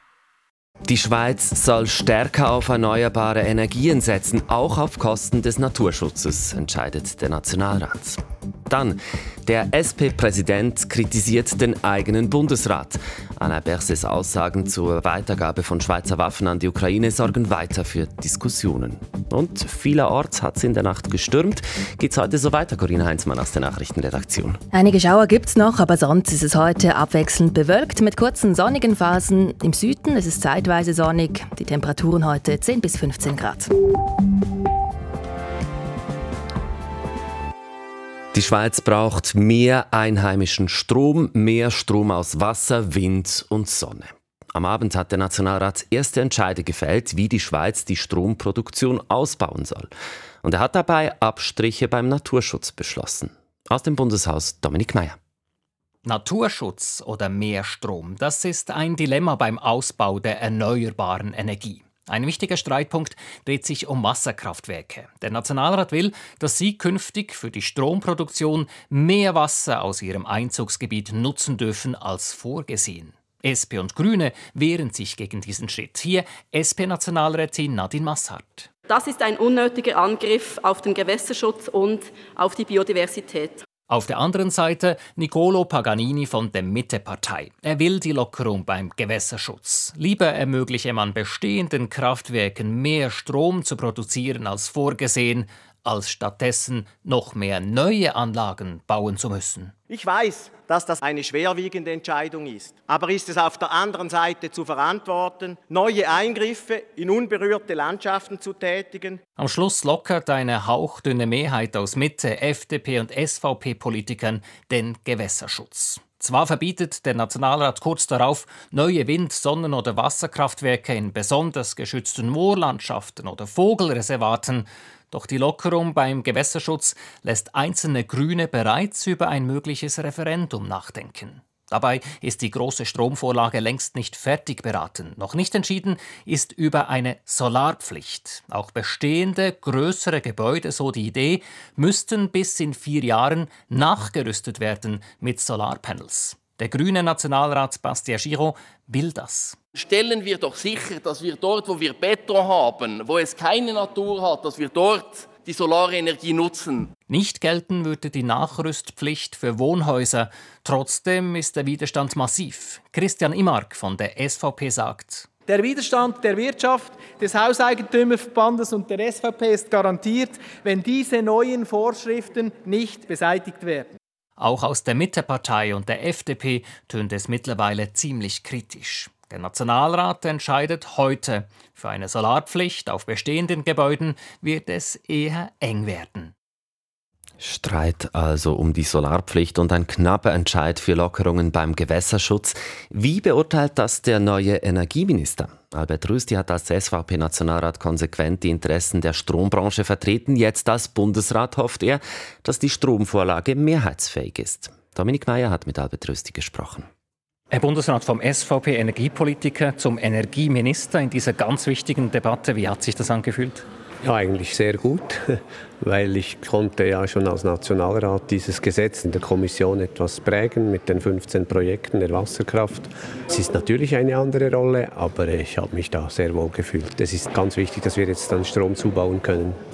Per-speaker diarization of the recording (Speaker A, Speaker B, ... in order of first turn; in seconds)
Speaker A: 0.9-24.6, 38.3-49.9, 50.4-55.2, 187.4-206.9
Speaker B: 24.7-33.7
Speaker C: 56.0-78.7, 83.9-99.7, 109.4-149.6, 157.1-165.3, 174.4-186.3, 207.5-213.7
Speaker D: 78.8-83.7
Speaker E: 99.9-109.2
Speaker F: 149.8-156.9
Speaker G: 165.5-173.9
Speaker H: 214.0-229.6